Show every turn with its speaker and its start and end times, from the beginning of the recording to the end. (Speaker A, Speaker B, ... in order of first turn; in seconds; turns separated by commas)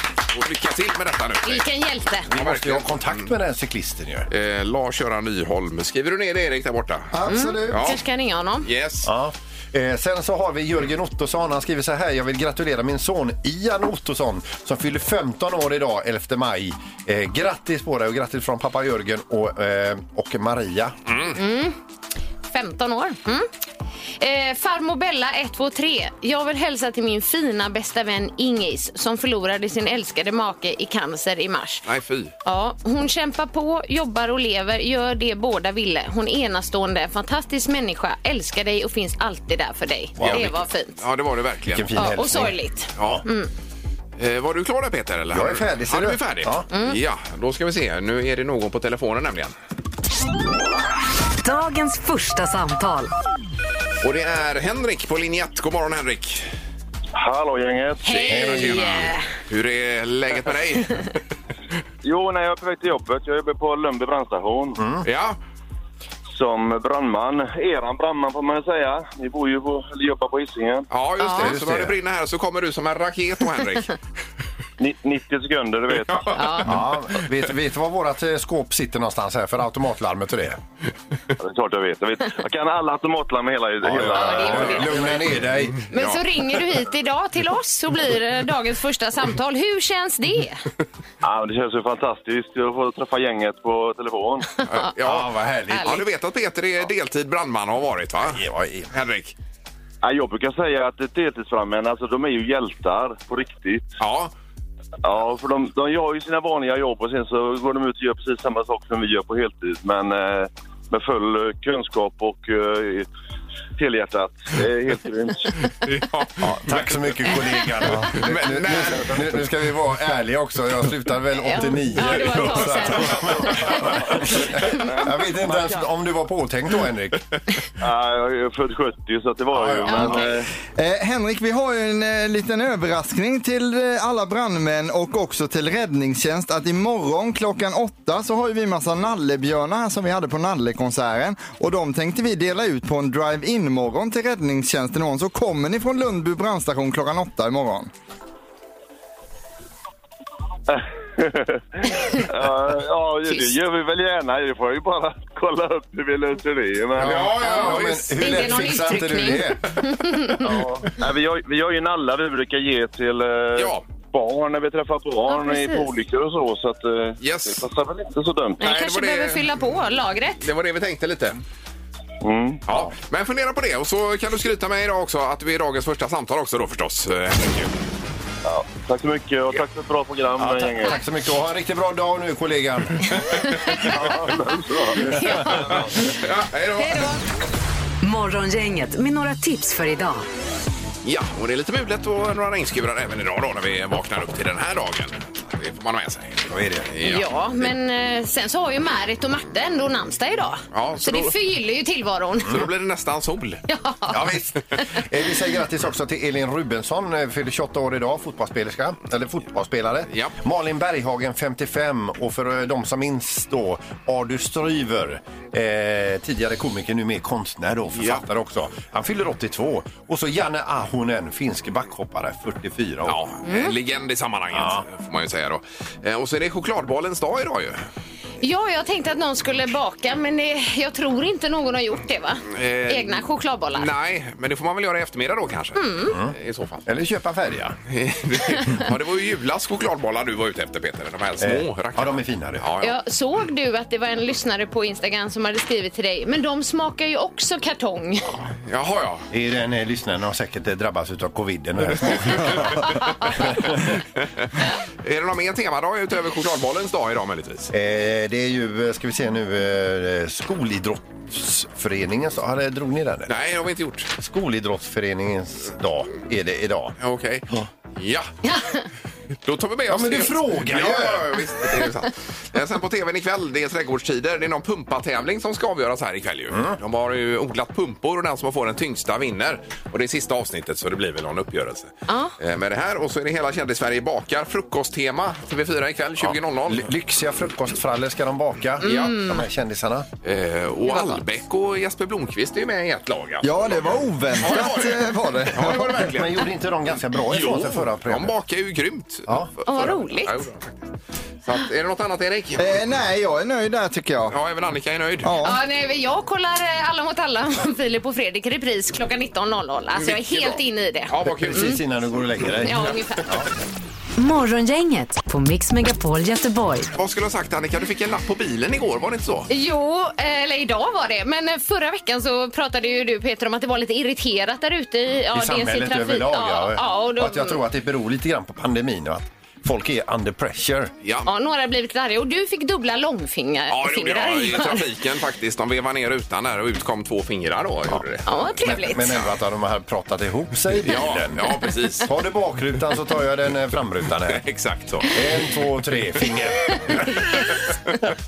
Speaker A: 0.3-1.7, Speaker B: 1.4-2.3, Speaker A: 2.2-3.3, Speaker C: 2.3-4.3, Speaker A: 4.3-8.0, Speaker D: 7.1-7.9, Speaker B: 7.3-8.7, Speaker A: 8.6-9.1, Speaker C: 9.0-21.0, Speaker A: 21.1-21.4, Speaker B: 21.3-21.8, Speaker B: 22.5-23.5, Speaker B: 24.2-31.9, Speaker A: 31.9-32.3, Speaker B: 32.4-41.0, Speaker C: 40.2-40.5, Speaker A: 40.2-41.9, Speaker C: 41.7-43.2, Speaker B: 42.0-43.5, Speaker A: 43.0-43.2, Speaker A: 44.2-49.5, Speaker C: 45.3-46.6, Speaker B: 46.7-47.0, Speaker E: 51.4-53.1, Speaker A: 54.0-56.5, Speaker F: 57.1-58.2, Speaker B: 58.0-59.2, Speaker A: 58.2-61.1, Speaker C: 58.3-58.9, Speaker F: 62.0-64.8, Speaker C: 64.8-65.0, Speaker A: 65.0-65.4, Speaker F: 66.3-70.8, Speaker A: 70.9-74.0, Speaker B: 71.2-71.5, Speaker C: 71.3-71.9, Speaker F: 74.8-76.3, Speaker A: 76.1-76.9, Speaker B: 76.3-76.7, Speaker C: 76.6-80.6, Speaker F: 81.4-84.9, Speaker C: 83.8-85.8, Speaker A: 84.0-85.2, Speaker B: 84.2-84.9, Speaker A: 85.9-86.2, Speaker B: 85.9-90.6, Speaker F: 91.2-94.5, Speaker A: 94.7-99.3, Speaker C: 95.0-95.9, Speaker B: 95.7-96.0, Speaker C: 98.3-98.9, Speaker F: 100.0-103.9, Speaker A: 104.0-104.3, Speaker F: 105.0-113.1, Speaker F: 113.8-115.5, Speaker A: 115.8-116.8, Speaker C: 116.6-127.2, Speaker A: 117.8-119.3, Speaker B: 121.4-124.8, Speaker F: 124.2-125.8, Speaker F: 127.8-130.5, Speaker C: 129.5-130.3, Speaker B: 129.8-130.3, Speaker D: 130.8-147.9, Speaker F: 150.7-157.3, Speaker C: 157.0-159.6, Speaker A: 157.0-158.4, Speaker B: 157.5-160.3, Speaker F: 160.4-168.6, Speaker A: 163.6-163.8, Speaker B: 165.3-165.9, Speaker A: 167.2-167.6, Speaker A: 168.6-169.6, Speaker B: 168.6-170.4, Speaker A: 170.4-171.4, Speaker F: 172.2-172.6, Speaker A: 172.7-177.8, Speaker F: 178.4-181.0, Speaker C: 180.4-183.2, Speaker B: 183.3-183.8, Speaker F: 183.7-185.3, Speaker B: 185.0-186.2, Speaker A: 185.9-187.1, Speaker B: 186.8-187.2, Speaker E: 188.0-190.2, Speaker A: 191.0-197.3, Speaker C: 196.5-196.9, Speaker B: 197.0-202.6, Speaker A: 200.7-201.3, Speaker A: 202.4-203.6, Speaker B: 203.7-204.3, Speaker C: 204.1-223.2, Speaker A: 217.9-218.2, Speaker A: 223.0-227.8, Speaker B: 223.4-223.7, Speaker C: 224.5-224.8, Speaker B: 228.4-233.9, Speaker A: 232.5-233.2, Speaker A: 233.7-236.8, Speaker B: 235.8-236.1, Speaker C: 236.1-236.3, Speaker C: 236.8-237.8, Speaker A: 237.9-243.0, Speaker C: 241.4-242.7, Speaker B: 242.8-248.3, Speaker A: 248.6-249.2, Speaker C: 249.3-253.9, Speaker A: 255.0-257.7, Speaker C: 257.7-263.4, Speaker A: 263.3-264.1, Speaker C: 264.2-266.9, Speaker A: 267.0-268.3, Speaker B: 268.4-268.8, Speaker A: 269.4-286.9, Speaker C: 269.9-271.4, Speaker C: 276.5-276.8, Speaker B: 282.1-282.3, Speaker C: 286.2-290.1, Speaker A: 288.8-289.2, Speaker B: 288.8-289.4, Speaker A: 290.2-296.5, Speaker B: 290.9-291.2, Speaker D: 293.4-296.0, Speaker C: 295.6-298.3, Speaker A: 297.3-300.9, Speaker B: 299.6-300.5, Speaker A: 301.4-302.6, Speaker D: 302.6-304.4, Speaker A: 304.3-305.5, Speaker D: 305.2-305.6, Speaker B: 305.4-311.8, Speaker A: 309.9-311.8, Speaker C: 311.2-313.5, Speaker B: 312.6-313.4, Speaker E: 314.2-316.9, Speaker A: 316.9-319.5, Speaker B: 319.5-327.6, Speaker C: 325.3-330.9, Speaker A: 331.0-331.3, Speaker B: 331.2-334.9, Speaker A: 333.7-339.3, Speaker B: 338.2-339.1, Speaker C: 338.6-344.4, Speaker A: 340.8-342.1, Speaker A: 344.3-345.1, Speaker C: 345.1-347.0, Speaker B: 346.9-347.9